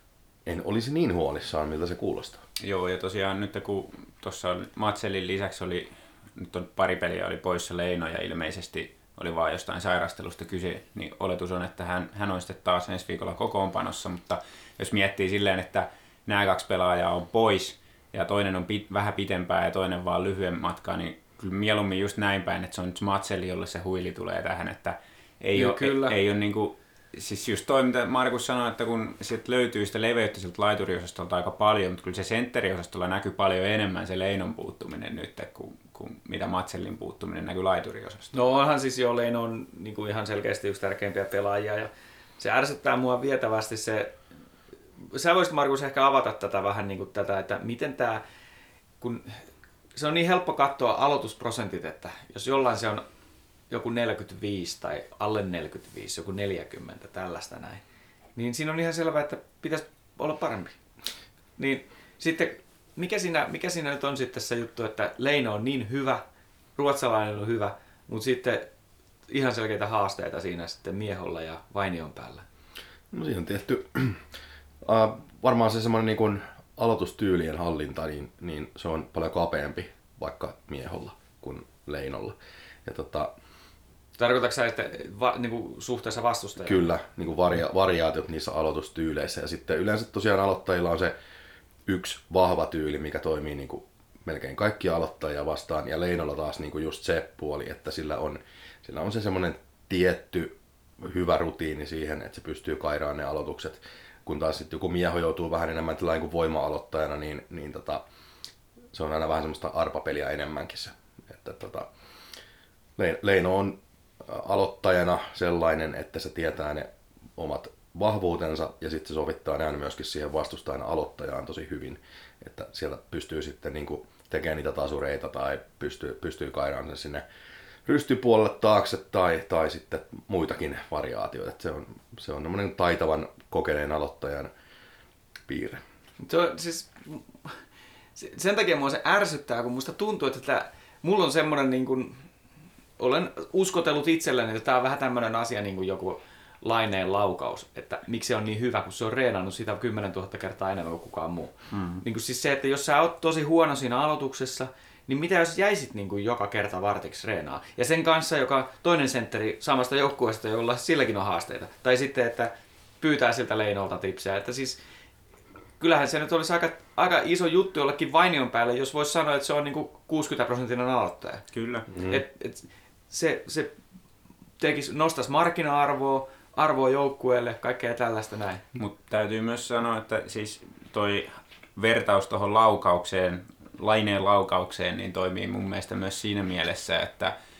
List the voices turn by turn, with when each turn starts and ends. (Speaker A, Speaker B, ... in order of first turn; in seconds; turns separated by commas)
Speaker A: 0.5-2.4, Speaker B: 2.6-38.3, Speaker C: 25.5-26.1, Speaker C: 38.3-44.1, Speaker C: 45.0-48.2, Speaker C: 49.0-49.4, Speaker C: 50.0-53.0, Speaker C: 53.7-57.8, Speaker C: 58.4-60.8, Speaker C: 61.6-66.2, Speaker C: 66.8-68.7, Speaker C: 69.3-72.4, Speaker A: 73.1-74.2, Speaker A: 74.8-83.3, Speaker C: 84.2-86.8, Speaker A: 86.6-91.1, Speaker A: 91.8-108.0, Speaker A: 108.9-111.9, Speaker A: 113.0-127.2, Speaker A: 127.8-134.5, Speaker A: 135.5-135.8, Speaker C: 136.2-137.5, Speaker C: 138.2-142.2, Speaker C: 143.0-164.8, Speaker B: 151.7-152.0, Speaker C: 165.8-171.4, Speaker B: 171.5-171.9, Speaker C: 172.0-173.8, Speaker C: 174.6-178.6, Speaker B: 178.8-187.3